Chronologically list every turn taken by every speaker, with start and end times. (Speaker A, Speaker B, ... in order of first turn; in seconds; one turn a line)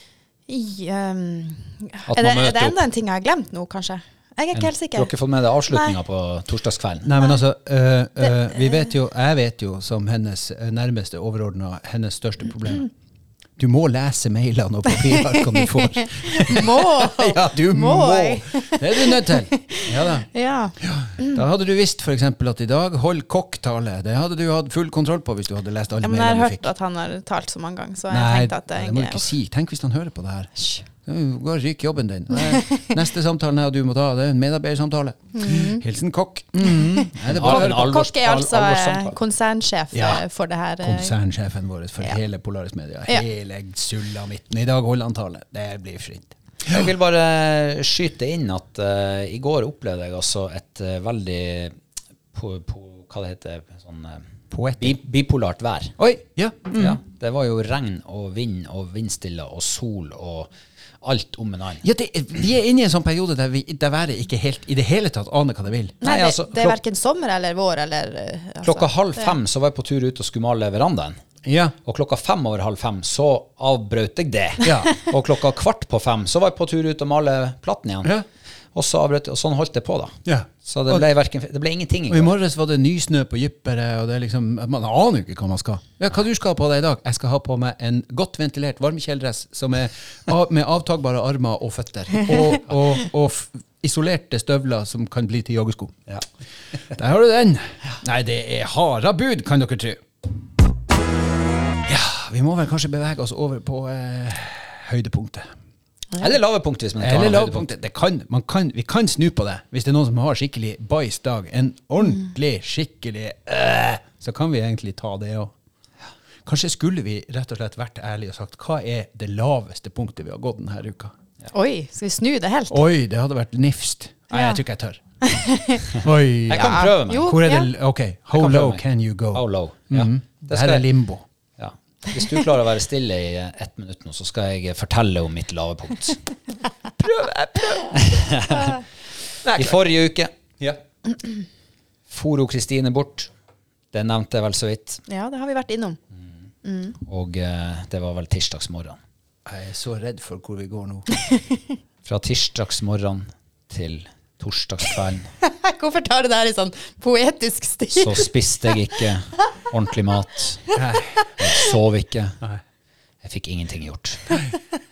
Speaker A: 0.5-5.1
Speaker B: 2.1-2.8
Speaker B: 4.5-7.1
Speaker A: 5.7-6.0
Speaker C: 7.0-12.9
Speaker A: 8.3-8.7
Speaker C: 13.6-20.3
Speaker A: 15.2-21.4
Speaker C: 20.8-26.7
Speaker A: 26.0-29.3
Speaker C: 28.1-30.5
Speaker A: 30.6-30.8
Speaker C: 31.0-38.0
Speaker A: 32.3-32.9
Speaker A: 35.3-35.8
Speaker A: 36.7-41.1
Speaker B: 37.3-39.1
Speaker C: 39.9-40.2
Speaker C: 40.8-46.9
Speaker B: 46.7-51.8
Speaker B: 52.3-54.2
Speaker C: 54.5-55.0
Speaker B: 54.8-56.0
Speaker C: 56.0-57.0
Speaker B: 56.7-60.5
Speaker B: 61.0-61.8
Speaker C: 61.8-66.0
Speaker A: 66.0-69.3
Speaker B: 66.0-66.8
Speaker B: 68.6-71.2
Speaker C: 71.4-71.8
Speaker B: 71.9-78.1
Speaker C: 74.6-74.9
Speaker B: 78.7-82.3
Speaker C: 80.2-81.0
Speaker C: 82.1-96.0
Speaker C: 96.9-100.0
Speaker C: 101.8-105.5
Speaker B: 106.2-107.7
Speaker C: 107.0-115.5
Speaker C: 116.5-121.1
Speaker A: 121.5-122.8
Speaker C: 122.7-125.0
Speaker A: 124.3-124.6
Speaker A: 125.2-126.0
Speaker C: 126.0-131.2
Speaker B: 126.5-127.4
Speaker A: 126.5-127.7
Speaker B: 128.3-130.9
Speaker B: 131.6-136.2
Speaker C: 137.0-138.6
Speaker B: 137.9-138.8
Speaker C: 139.4-139.8
Speaker B: 139.5-140.3
Speaker B: 142.1-143.3
Speaker B: 143.9-145.0
Speaker A: 145.1-146.0
Speaker A: 146.6-147.0
Speaker B: 147.1-149.0
Speaker C: 149.5-151.1
Speaker A: 151.3-151.6
Speaker B: 152.1-155.3
Speaker A: 155.4-158.3
Speaker B: 157.9-160.6
Speaker A: 160.7-161.7
Speaker C: 160.8-161.2
Speaker B: 161.4-162.4
Speaker B: 163.2-164.4